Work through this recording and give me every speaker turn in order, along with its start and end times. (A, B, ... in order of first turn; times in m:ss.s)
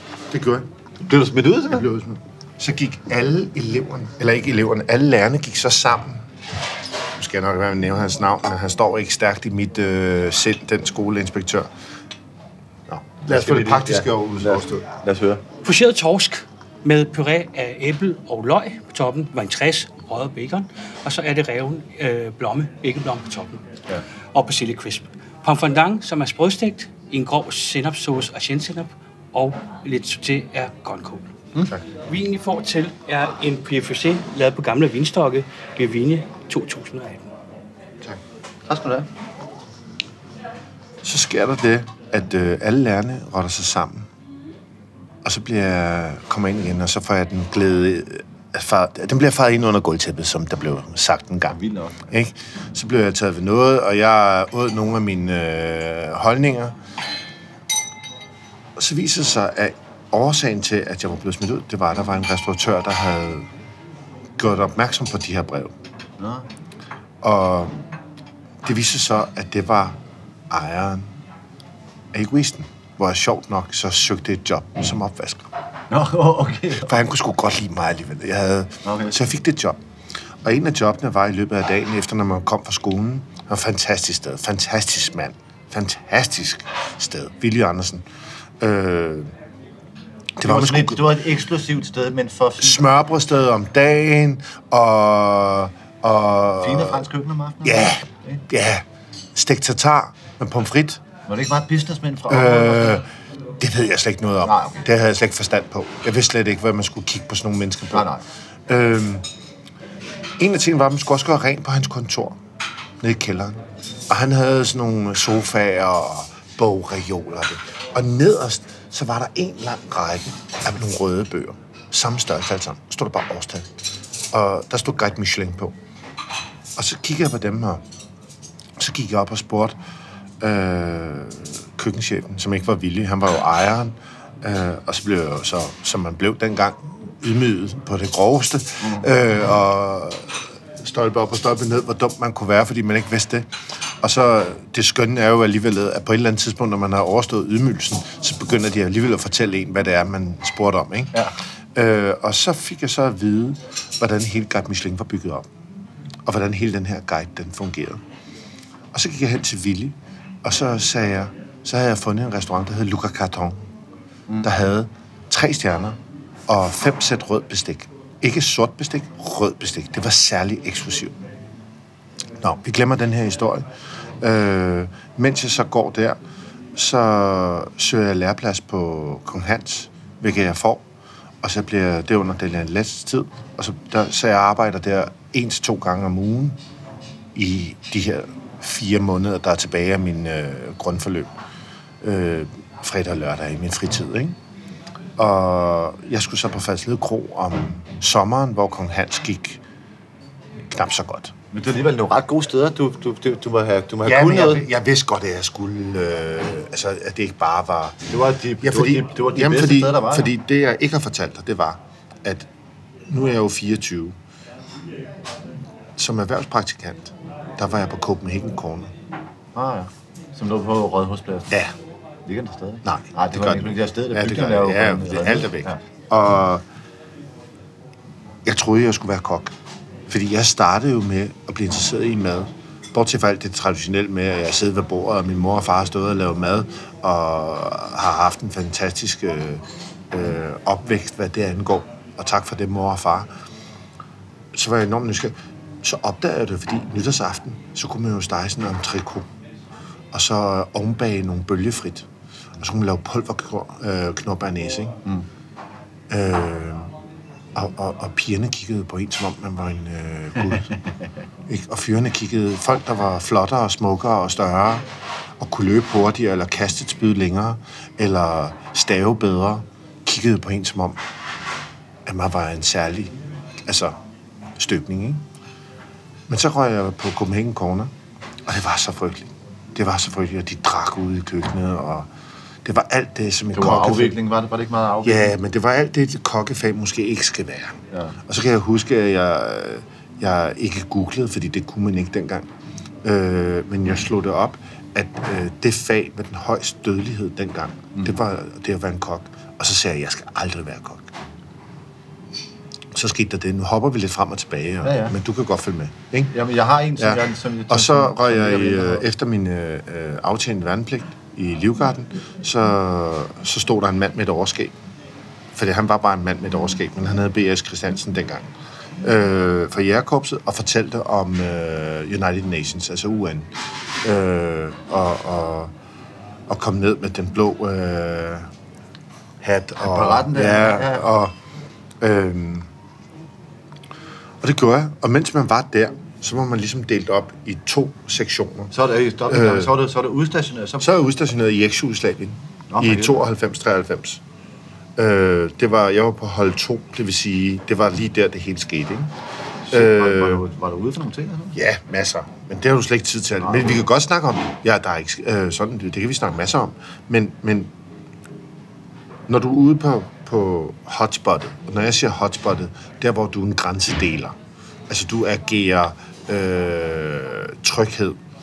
0:00.3-0:00.7 A
0:01.0-0:01.9 B
0:01.7-0:06.2 A
0:07.2-0:11.7 A
0:12.9-0:14.9 A
0:13.3-0:15.4 B
0:15.6-0:23.6 C
0:24.3-0:31.3 C
0:32.0-0:37.3 C
0:38.7-0:39.1 B
0:41.0-0:44.1 A
0:45.2-0:56.8 A
0:51.5-0:52.1 B
0:58.8-1:03.5 A
1:04.4-1:05.7 A
1:06.2-1:06.5 B
1:07.2-1:07.8 A
1:08.6-1:11.1 A
1:12.1-1:15.5 A
1:15.9-1:16.9 B
1:16.7-1:19.8 A
1:18.8-1:19.2 B
1:20.4-1:28.0 A
1:28.6-1:29.3 A
1:30.4-1:31.1 A
1:30.4-1:32.9 B
1:32.6-1:37.0 A
1:36.6-1:38.4 B
1:37.6-1:41.0 A
1:41.3-1:43.0 B
1:42.3-1:43.1 A
1:43.6-1:48.1 A
1:44.4-1:44.8 B
1:47.9-1:48.2 B
1:48.7-1:49.2 A
1:50.4-1:52.4 A
1:53.0-2:03.7 A
2:04.3-2:05.8 A
2:06.8-2:07.8 A
2:08.8-2:09.8 A
2:10.4-2:23.5 A
2:18.8-2:19.1 B
2:24.0-2:31.2 A
2:31.7-2:35.5 A
2:36.2-2:38.0 A
2:38.9-2:43.6 A
2:44.4-2:51.2 A
2:52.4-2:53.7 A
2:54.2-2:56.2 A
2:56.8-3:00.8 A
3:01.4-3:06.6 A
3:07.4-3:11.3 A
3:12.0-3:14.4 A
3:15.2-3:19.6 A
3:20.7-3:21.3 A
3:21.5-3:24.7 B
3:24.0-3:28.0 A
3:28.1-3:30.3 B
3:28.6-3:32.5 A
3:33.1-3:34.2 A
3:36.0-3:38.9 A
3:39.5-3:41.5 B
3:41.5-3:41.8 A
3:42.2-3:45.8 B
3:42.8-3:46.6 A
3:48.4-3:49.5 A
3:50.1-4:03.3 A
4:04.5-4:09.3 A
4:10.1-4:12.1 A
4:12.6-4:15.0 A
4:16.1-4:16.9 A
4:17.5-4:20.7 A
4:20.5-4:21.0 B
4:21.5-4:24.9 A
4:25.4-4:31.0 A
4:32.1-4:33.1 A
4:33.6-4:34.0 A
4:34.6-4:35.2 A
4:36.3-4:37.9 A
4:38.5-4:42.1 A
4:42.6-4:44.2 A
4:43.5-4:45.4 B
4:45.0-4:52.5 A
4:53.0-5:01.1 A
5:02.9-5:06.3 A
5:04.8-5:05.2 B
5:06.3-5:09.1 B
5:07.0-5:14.8 A
5:15.5-5:18.5 A
5:19.0-5:25.7 A
5:26.5-5:28.5 A
5:29.4-5:31.4 A
5:29.8-5:31.1 B
5:32.0-5:32.7 A
5:34.4-5:38.7 A
5:38.7-5:40.9 B
5:39.3-5:39.8 A
5:40.8-5:44.2 A
5:42.7-5:43.2 B
5:45.0-5:49.1 A
5:49.6-5:51.6 B
5:49.7-5:50.4 A
5:51.5-5:57.7 A
5:53.4-5:53.8 B
5:59.3-6:04.4 A
6:04.9-6:08.2 A